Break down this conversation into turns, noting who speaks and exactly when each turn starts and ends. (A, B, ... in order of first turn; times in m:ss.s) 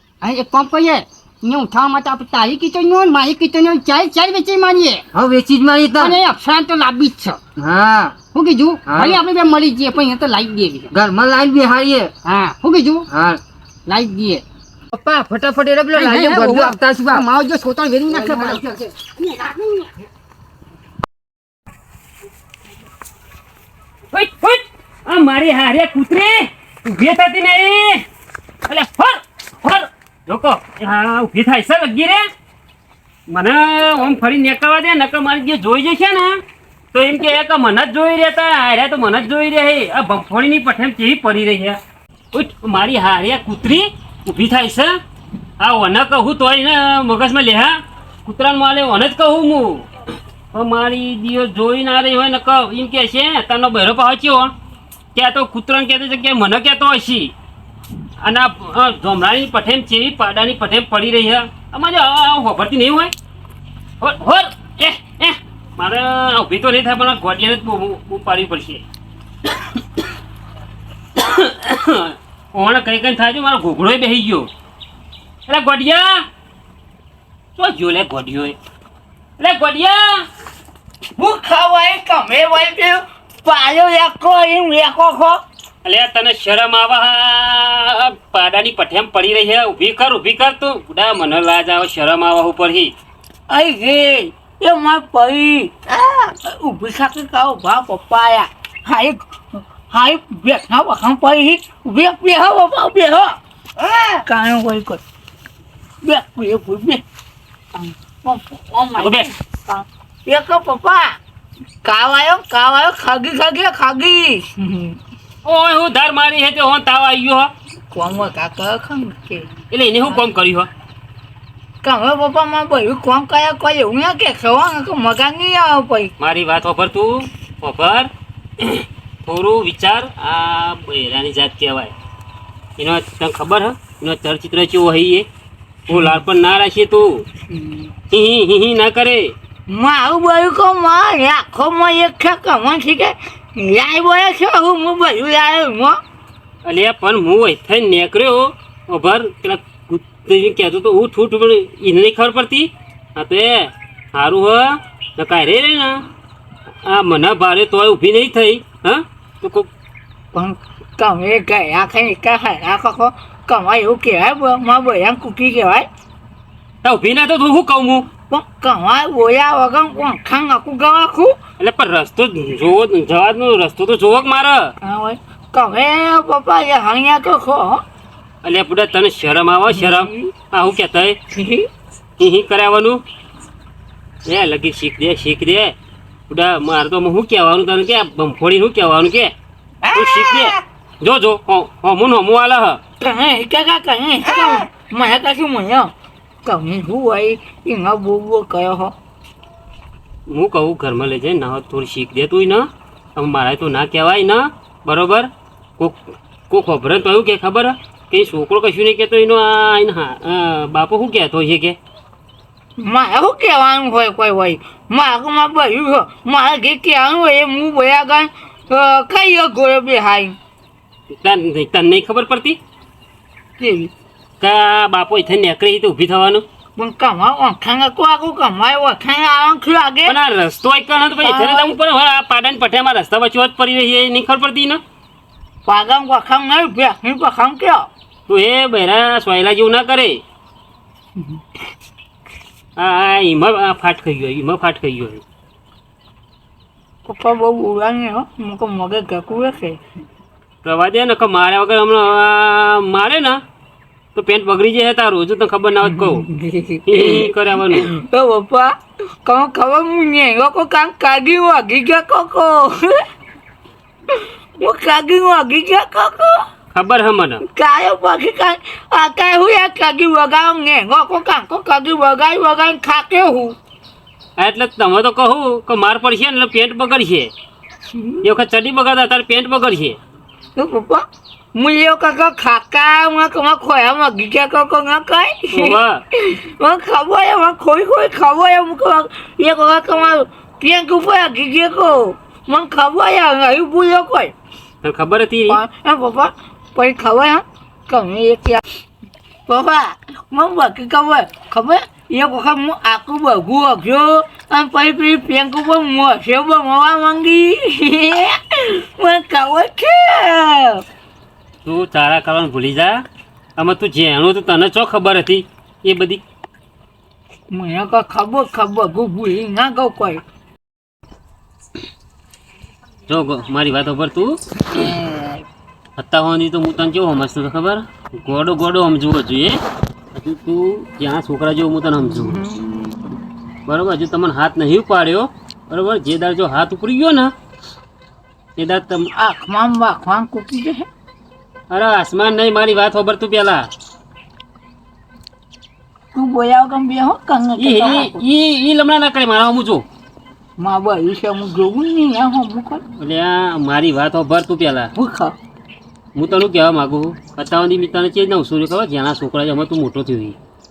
0:00.2-0:05.0 A
0:05.1-0:06.2 B
0:06.0-0:07.4 A
0:07.6-0:08.2 B
0:08.2-0:10.9 A
0:08.9-0:09.2 B
0:10.9-0:12.1 B
0:12.2-0:13.0 A
0:13.1-0:13.4 B
0:13.9-0:14.4 A
0:14.9-0:17.2 B
0:15.9-0:19.9 A
0:18.1-0:18.6 B
0:24.1-0:28.0 C
0:28.6-0:32.2 C
0:33.3-0:36.4 C
0:36.9-0:41.8 C
0:42.3-0:44.9 C
0:45.6-0:49.9 C
0:50.5-0:54.5 C
0:55.1-0:57.3 C
0:58.2-1:03.1 C
1:04.0-1:08.8 C
1:09.4-1:10.0 C
1:11.2-1:14.5 C
1:15.5-1:16.2 C
1:17.6-1:18.6 C
1:19.4-1:20.2 C
1:21.2-1:25.4 D
1:25.8-1:32.9 C
1:33.5-1:35.7 D
1:36.2-1:39.2 D
1:39.9-1:43.4 D
1:44.1-1:45.0 D
1:46.0-1:47.0 D
1:47.7-1:51.2 D
1:49.0-1:49.3 C
1:51.8-1:54.9 D
1:55.4-1:57.5 C
1:57.9-1:59.5 D
1:59.7-2:00.7 C
2:01.8-2:06.1 D
2:06.2-2:08.1 C
2:08.6-2:11.9 C
2:12.8-2:15.3 C
2:15.9-2:17.2 C
2:17.5-2:17.8 D
2:18.1-2:19.3 C
2:19.7-2:26.0 D
2:26.6-2:36.0 C
2:36.8-2:39.7 C
2:40.3-2:45.9 D
2:46.8-2:48.1 C
2:48.3-2:51.4 D
2:51.6-2:54.7 C
2:54.8-2:57.8 D
2:58.4-3:01.2 C
2:59.8-3:00.1 D
3:01.3-3:01.7 D
3:02.2-3:03.0 C
3:04.2-3:05.7 C
3:06.3-3:09.3 C
3:09.9-3:12.8 C
3:13.0-3:15.9 D
3:16.4-3:18.9 D
3:20.3-3:26.0 C
3:26.5-3:31.8 C
3:32.8-3:40.4 D
3:41.1-3:42.6 C
3:43.6-3:43.9 D
3:44.4-3:46.4 C
3:46.8-3:50.2 D
3:50.0-3:54.8 C
3:51.2-3:51.7 D
3:55.6-3:57.9 D
3:58.3-4:00.2 C
4:02.8-4:05.2 C
4:07.1-4:09.8 D
4:10.6-4:13.4 C
4:14.1-4:16.2 C
4:16.0-4:18.7 D
4:16.8-4:17.9 C
4:19.2-4:23.0 D
4:24.6-4:26.4 D
4:26.7-4:27.4 C
4:27.5-4:33.5 D
4:34.4-4:37.3 C
4:38.2-4:40.0 C
4:40.6-4:41.0 D
4:41.5-4:54.3 D
4:45.5-4:46.0 C
4:54.8-4:55.6 C
4:55.5-4:58.6 D
4:59.5-5:10.8 D
5:11.6-5:13.0 C
5:13.6-5:16.2 C
5:17.5-5:20.2 D
5:23.1-5:24.4 C
5:24.7-5:25.4 D
5:26.0-5:29.6 C
5:30.1-5:32.4 C
5:32.2-5:33.1 D
5:33.6-5:37.3 C
5:38.6-5:39.1 C
5:39.1-5:40.9 D
5:41.7-5:43.7 C
5:46.1-5:48.2 D
5:47.6-5:49.8 C
5:50.6-5:52.8 D
5:53.0-5:54.9 C
5:55.0-5:55.3 D
5:56.1-6:00.4 C